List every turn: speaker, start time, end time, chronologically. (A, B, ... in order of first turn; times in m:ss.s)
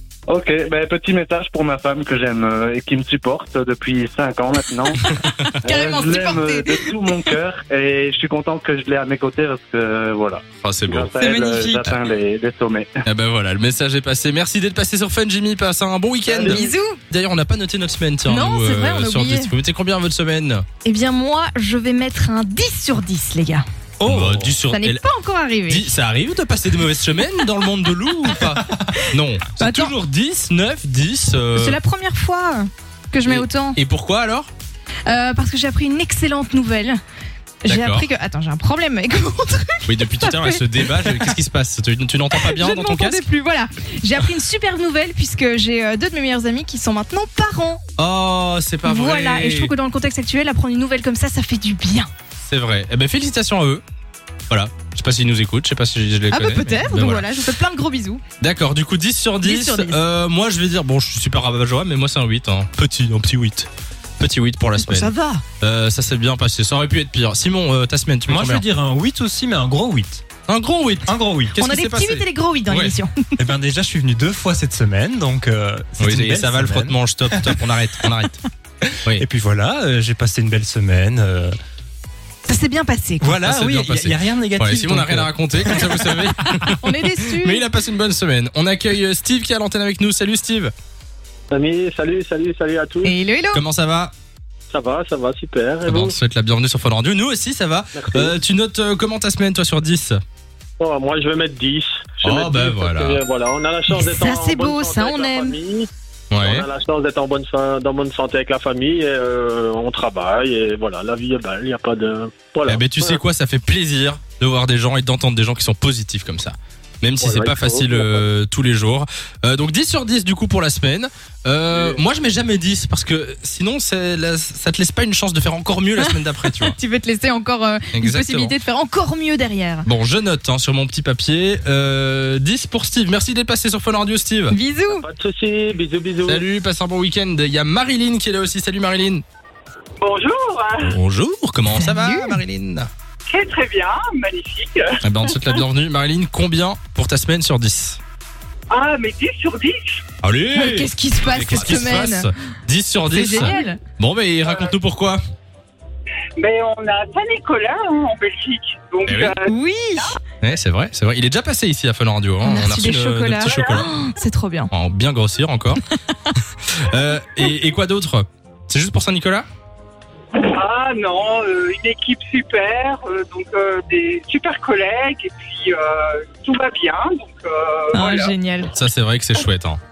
0:00.3-0:05.1 A
0:05.1-0:05.6 B
0:05.6-0:12.9 A
0:05.6-0:07.0 C
0:10.6-0:11.1 B
0:11.2-0:12.0 C
0:13.1-0:20.6 B
0:16.4-0:17.0 C
0:18.2-0:19.5 C
0:20.8-0:23.6 C
0:24.0-0:24.6 D
0:24.0-0:25.0 B
0:24.7-0:25.9 C
0:25.7-0:31.8 B
0:28.3-0:28.9 C
0:29.5-0:30.0 C
0:31.5-0:33.8 C
0:33.2-0:34.5 B
0:35.1-0:37.0 C
0:37.6-0:41.3 C
0:37.7-0:38.1 B
0:39.9-0:43.3 B
0:42.3-0:47.8 C
0:48.0-0:49.7 B
0:48.8-0:52.1 C
0:52.4-0:53.8 B
0:54.5-0:57.3 B
0:56.3-0:58.2 C
0:58.4-1:08.6 B
0:59.4-1:00.0 C
1:04.8-1:05.4 C
1:08.3-1:10.2 D
1:10.5-1:13.0 B
1:11.1-1:11.6 D
1:11.6-1:13.2 C
1:13.4-1:17.6 D
1:16.0-1:19.2 B
1:19.1-1:21.6 D
1:22.5-1:23.3 C
1:23.2-1:26.0 D
1:23.4-1:30.7 B
1:26.6-1:27.6 C
1:31.5-1:33.1 E
1:33.0-1:33.6 C
1:33.5-1:34.1 B
1:34.7-1:36.2 E
1:35.9-1:40.2 B
1:38.0-1:38.4 E
1:40.8-1:45.9 E
1:42.2-1:43.2 B
1:43.9-1:45.6 C
1:46.3-1:46.7 B
1:46.4-1:53.2 E
1:52.7-2:06.8 B
1:57.2-1:58.2 E
2:01.7-2:02.0 E
2:06.0-2:09.9 C
2:07.9-2:08.5 B
2:09.9-2:14.6 B
2:14.5-2:15.0 C
2:14.9-2:16.4 E
2:16.3-2:19.2 B
2:20.0-2:21.0 F
2:20.8-2:22.9 B
2:21.7-2:22.4 C
2:23.3-2:25.6 F
2:25.0-2:28.0 B
2:28.7-2:30.0 F
2:30.2-2:35.2 B
2:30.5-2:32.3 C
2:33.1-2:33.8 C
2:34.4-2:34.7 F
2:36.4-2:40.2 F
2:39.1-2:39.4 B
2:39.5-2:40.2 C
2:40.4-2:43.9 B
2:42.4-2:44.7 C
2:43.4-2:43.9 F
2:44.7-2:45.8 B
2:46.7-2:49.5 B
2:50.4-2:58.3 F
2:57.9-2:58.7 C
2:58.7-2:59.8 B